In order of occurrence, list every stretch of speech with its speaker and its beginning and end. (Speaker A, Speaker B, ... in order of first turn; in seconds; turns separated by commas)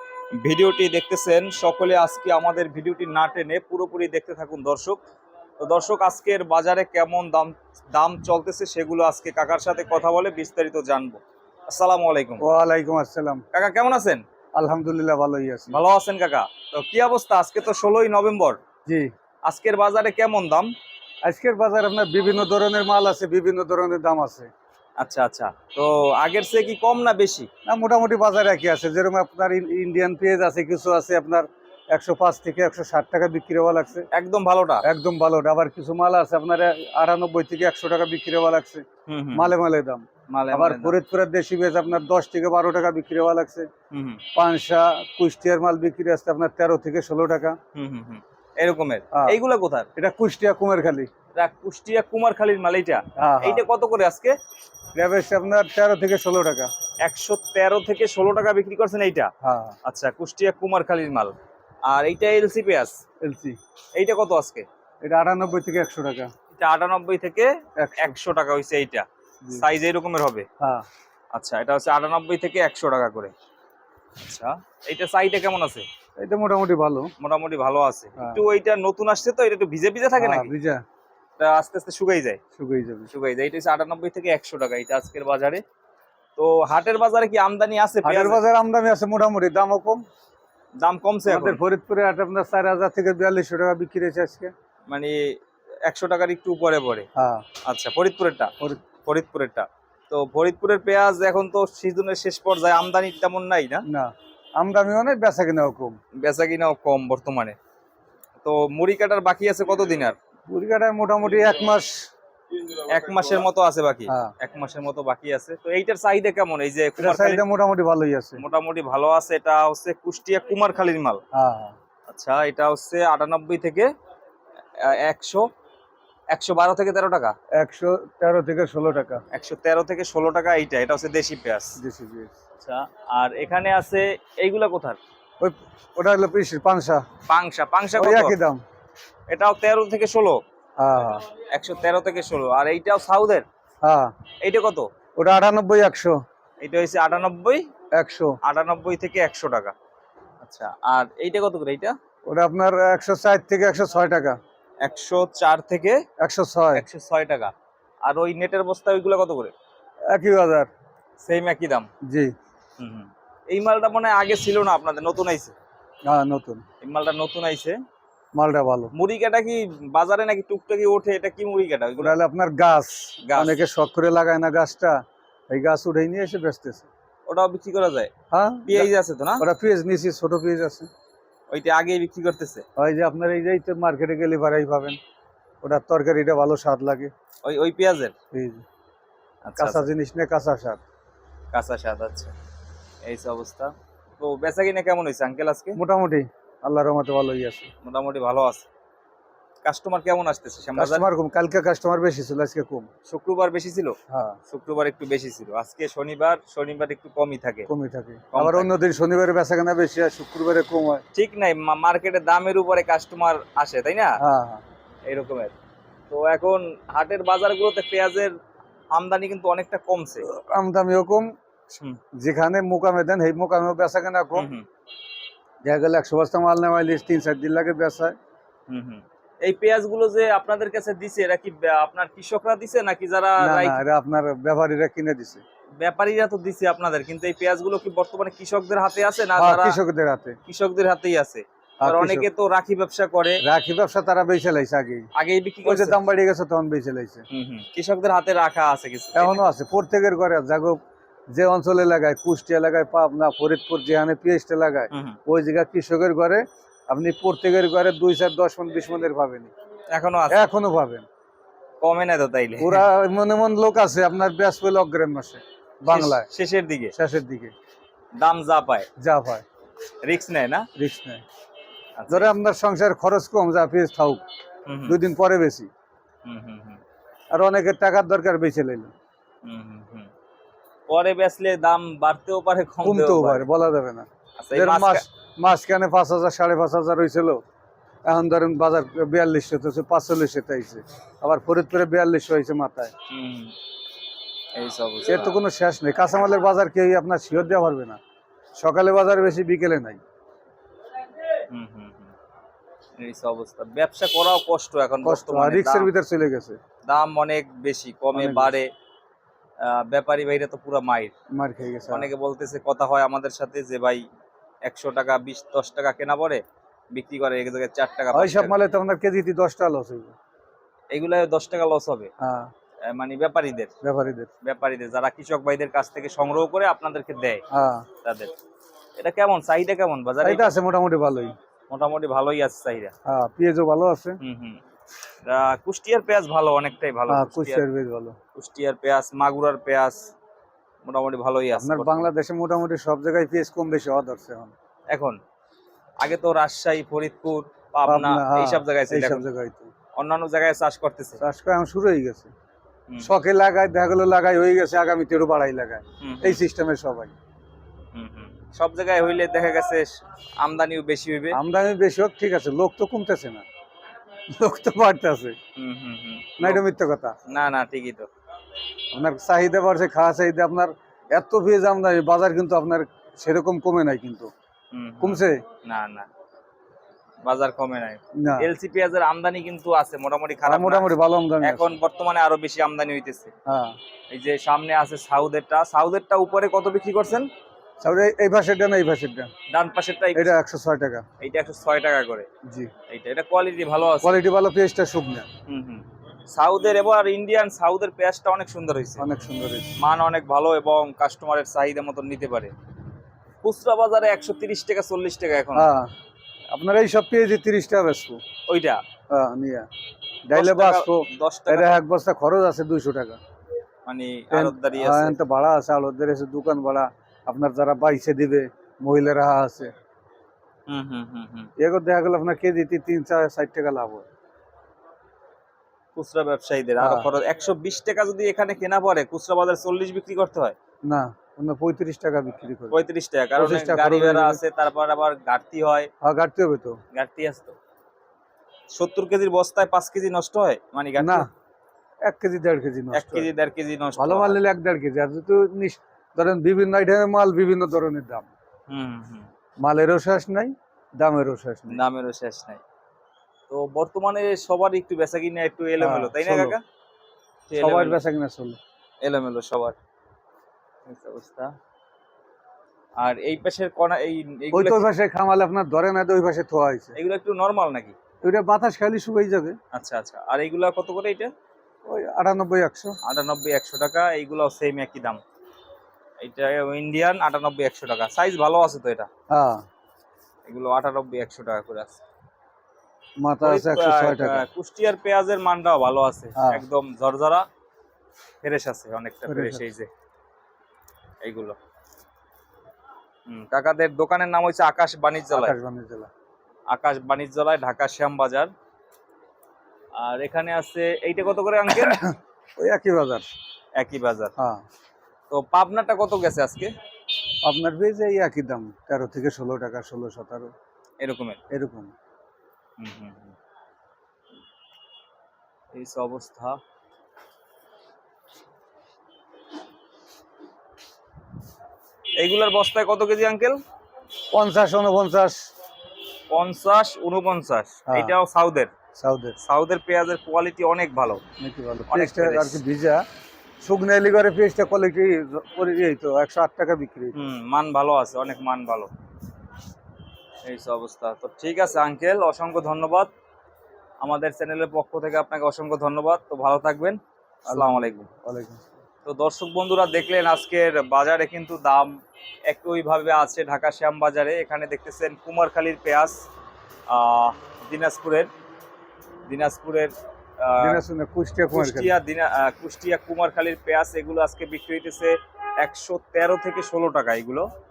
Speaker A: 0.4-5.0, Speaker A: 5.6-12.4, Speaker B: 12.4-13.4, Speaker A: 13.5-14.2, Speaker B: 14.6-15.7, Speaker A: 15.7-18.6, Speaker A: 19.4-20.7, Speaker B: 21.3-24.5, Speaker A: 25.0-27.5, Speaker B: 27.7-34.1, Speaker A: 34.1-34.8, Speaker B: 34.8-43.7, Speaker A: 39.1-39.5, Speaker A: 40.3-41.0, Speaker A: 43.9-44.2, Speaker B: 44.3-47.6, Speaker A: 47.7-49.9, Speaker B: 50.0-51.1, Speaker A: 51.4-54.4, Speaker B: 53.2-53.7, Speaker B: 55.0-56.7, Speaker A: 57.0-59.3, Speaker B: 59.4-59.8, Speaker A: 59.8-61.3, Speaker A: 61.9-63.0, Speaker B: 63.2-63.6, Speaker A: 64.0-64.7, Speaker B: 65.0-66.3, Speaker A: 66.5-70.5, Speaker B: 67.8-68.2, Speaker A: 71.3-73.3, Speaker A: 74.2-75.8, Speaker B: 76.2-77.1, Speaker A: 77.2-80.5, Speaker B: 80.2-80.8, Speaker A: 81.4-82.4, Speaker B: 82.6-83.1, Speaker A: 83.1-85.6, Speaker A: 86.4-88.4, Speaker B: 88.0-90.0, Speaker A: 90.8-91.6, Speaker B: 91.2-94.5, Speaker A: 94.9-97.1, Speaker B: 97.2-97.4, Speaker A: 97.7-98.5, Speaker A: 99.0-103.8, Speaker B: 103.9-106.0, Speaker A: 106.2-107.6, Speaker A: 108.4-110.2, Speaker B: 110.5-112.1, Speaker A: 112.7-117.4, Speaker B: 114.1-114.3, Speaker B: 117.0-118.4, Speaker A: 118.4-121.2, Speaker B: 121.3-121.8, Speaker A: 122.1-123.9, Speaker A: 124.8-125.5, Speaker A: 126.3-127.3, Speaker B: 127.6-129.2, Speaker A: 129.3-131.8, Speaker B: 131.8-132.3, Speaker A: 132.6-135.0, Speaker B: 135.4-137.0, Speaker A: 137.3-138.3, Speaker B: 137.9-138.6, Speaker A: 139.3-140.4, Speaker B: 140.8-141.2, Speaker A: 141.5-143.4, Speaker B: 143.8-144.1, Speaker A: 144.4-144.9, Speaker B: 145.2-146.2, Speaker A: 146.6-147.6, Speaker B: 148.0-148.3, Speaker A: 148.4-149.8, Speaker A: 150.4-151.9, Speaker B: 152.3-154.4, Speaker A: 154.8-156.0, Speaker B: 156.2-156.8, Speaker A: 156.8-157.5, Speaker A: 158.1-159.5, Speaker B: 160.1-160.7, Speaker A: 161.2-161.9, Speaker B: 162.0-162.3, Speaker A: 162.8-165.6, Speaker B: 166.1-166.6, Speaker A: 166.8-167.8, Speaker B: 168.3-168.9, Speaker A: 168.9-172.2, Speaker B: 172.0-175.0, Speaker A: 173.2-173.6, Speaker B: 175.5-176.9, Speaker A: 177.3-178.1, Speaker B: 178.3-180.9, Speaker A: 178.7-179.4, Speaker A: 181.5-182.6, Speaker B: 182.8-185.0, Speaker B: 185.6-187.1, Speaker A: 187.4-188.1, Speaker B: 188.3-188.6, Speaker A: 189.4-189.9, Speaker B: 189.6-190.8, Speaker A: 191.5-192.3, Speaker A: 193.0-195.8, Speaker B: 195.8-197.7, Speaker A: 197.8-198.7, Speaker A: 199.6-201.0, Speaker B: 200.8-202.9, Speaker A: 203.1-203.9, Speaker B: 204.1-204.4, Speaker A: 204.5-207.7, Speaker B: 207.7-211.0, Speaker A: 208.3-208.7, Speaker A: 211.1-214.2, Speaker B: 214.2-214.6, Speaker A: 215.1-215.5, Speaker A: 216.1-218.3, Speaker A: 218.9-220.2, Speaker B: 220.3-221.3, Speaker A: 221.7-222.0, Speaker B: 222.2-224.5, Speaker A: 224.3-224.6, Speaker B: 225.6-228.1, Speaker A: 228.7-233.8, Speaker B: 233.4-235.4, Speaker A: 235.8-239.8, Speaker B: 239.4-240.4, Speaker A: 240.5-243.4, Speaker B: 241.8-242.3, Speaker B: 243.4-245.1, Speaker A: 245.1-246.0, Speaker B: 245.6-247.2, Speaker A: 247.3-249.4, Speaker B: 249.1-250.8, Speaker B: 251.3-259.5, Speaker A: 254.9-255.2, Speaker A: 259.9-260.5, Speaker B: 260.3-261.1, Speaker A: 261.8-262.9, Speaker B: 262.6-266.3, Speaker A: 265.9-266.9, Speaker B: 266.9-267.5, Speaker A: 268.1-268.9, Speaker B: 269.0-269.4, Speaker A: 270.0-270.7, Speaker B: 270.8-271.2, Speaker A: 272.0-272.3, Speaker B: 272.1-274.2, Speaker A: 274.6-275.0, Speaker B: 274.9-275.7, Speaker A: 276.2-276.8, Speaker B: 277.3-278.9, Speaker A: 279.4-280.1, Speaker A: 280.9-283.5, Speaker B: 282.8-287.4, Speaker A: 284.4-285.1, Speaker B: 288.1-292.9, Speaker A: 293.1-293.6, Speaker A: 294.5-295.3, Speaker B: 295.1-298.0, Speaker B: 298.6-300.0, Speaker A: 301.5-302.1, Speaker A: 303.0-305.9, Speaker B: 305.0-306.6, Speaker A: 306.9-308.7, Speaker B: 308.1-308.6, Speaker A: 309.6-311.1, Speaker B: 311.3-312.1, Speaker A: 311.9-314.0, Speaker A: 314.6-316.4, Speaker A: 316.9-318.6, Speaker B: 318.1-320.1, Speaker A: 320.9-322.1, Speaker B: 322.2-322.5, Speaker A: 322.8-323.7, Speaker B: 323.8-324.3, Speaker A: 324.4-327.4, Speaker B: 327.5-327.9, Speaker A: 328.0-328.3, Speaker A: 329.0-330.5, Speaker B: 330.2-331.3, Speaker A: 331.7-332.9, Speaker B: 333.1-334.2, Speaker A: 334.2-334.6, Speaker A: 335.2-337.6, Speaker B: 337.1-338.1, Speaker A: 338.3-340.1, Speaker A: 340.8-342.1, Speaker B: 341.6-344.5, Speaker A: 344.9-345.2, Speaker A: 346.0-349.2, Speaker B: 347.9-349.7, Speaker A: 349.9-351.2, Speaker B: 351.2-352.3, Speaker B: 353.0-357.1, Speaker A: 356.0-356.4, Speaker A: 357.9-361.4, Speaker B: 361.3-363.4, Speaker B: 364.3-365.4, Speaker A: 365.6-366.6, Speaker B: 366.4-367.1, Speaker A: 367.3-368.1, Speaker B: 368.9-374.3, Speaker A: 374.7-376.1, Speaker B: 375.0-375.4, Speaker A: 377.2-383.3, Speaker B: 378.2-378.5, Speaker B: 380.4-381.8, Speaker B: 383.5-383.8, Speaker A: 384.1-387.3, Speaker B: 387.8-389.3, Speaker A: 389.5-390.3, Speaker B: 390.1-391.1, Speaker A: 391.2-392.3, Speaker B: 392.4-392.7, Speaker A: 392.9-394.2, Speaker B: 394.0-395.3, Speaker A: 395.5-399.1, Speaker B: 399.0-399.8, Speaker A: 399.8-402.5, Speaker A: 403.4-405.7, Speaker B: 405.6-405.9, Speaker B: 406.5-408.2, Speaker A: 408.5-408.8, Speaker B: 409.1-409.7, Speaker B: 410.3-413.2, Speaker A: 410.3-411.8, Speaker A: 413.9-415.2, Speaker B: 414.3-419.7, Speaker A: 420.7-421.5, Speaker B: 421.6-424.1, Speaker A: 425.9-430.6, Speaker B: 426.8-427.1, Speaker B: 430.9-432.8, Speaker A: 432.7-435.9, Speaker B: 433.4-434.4, Speaker B: 436.0-436.8, Speaker A: 436.9-437.6, Speaker A: 438.7-441.2, Speaker B: 441.0-441.3, Speaker B: 442.1-443.3, Speaker A: 442.9-444.4, Speaker B: 444.0-448.3, Speaker A: 448.7-449.3, Speaker B: 449.6-451.8, Speaker A: 451.7-452.6, Speaker A: 453.5-456.6, Speaker B: 455.8-456.6, Speaker A: 457.5-458.0, Speaker B: 457.6-458.6, Speaker A: 459.0-459.8, Speaker A: 460.9-461.5, Speaker A: 463.0-464.9, Speaker B: 464.5-466.9, Speaker A: 466.9-467.9, Speaker B: 468.2-469.6, Speaker A: 469.7-471.3, Speaker B: 471.9-473.0, Speaker A: 473.0-475.2, Speaker A: 476.2-479.1, Speaker B: 479.3-479.6, Speaker A: 480.4-482.0, Speaker B: 483.2-484.4, Speaker A: 483.4-487.4, Speaker B: 486.4-486.6, Speaker A: 488.4-489.9, Speaker B: 489.2-489.6, Speaker A: 491.2-491.6, Speaker A: 493.3-495.6, Speaker B: 495.3-496.1, Speaker A: 496.7-498.5, Speaker A: 499.9-502.1, Speaker B: 502.6-503.2, Speaker A: 503.8-504.3, Speaker B: 504.4-504.6, Speaker A: 505.3-506.7, Speaker B: 507.4-510.5, Speaker A: 511.0-511.4, Speaker B: 511.5-511.9, Speaker A: 512.8-513.4, Speaker A: 515.7-516.6, Speaker A: 522.2-523.6, Speaker B: 524.3-525.5, Speaker A: 526.3-528.7, Speaker B: 527.9-528.1, Speaker B: 529.0-529.4, Speaker A: 529.4-531.2, Speaker B: 531.4-533.0, Speaker A: 531.9-532.6, Speaker B: 533.6-537.2, Speaker A: 537.1-538.9, Speaker A: 540.4-543.1, Speaker A: 544.0-548.1, Speaker B: 547.5-548.6, Speaker A: 549.0-556.2, Speaker A: 556.9-558.3, Speaker A: 559.3-560.8, Speaker B: 560.6-561.9, Speaker A: 561.5-567.5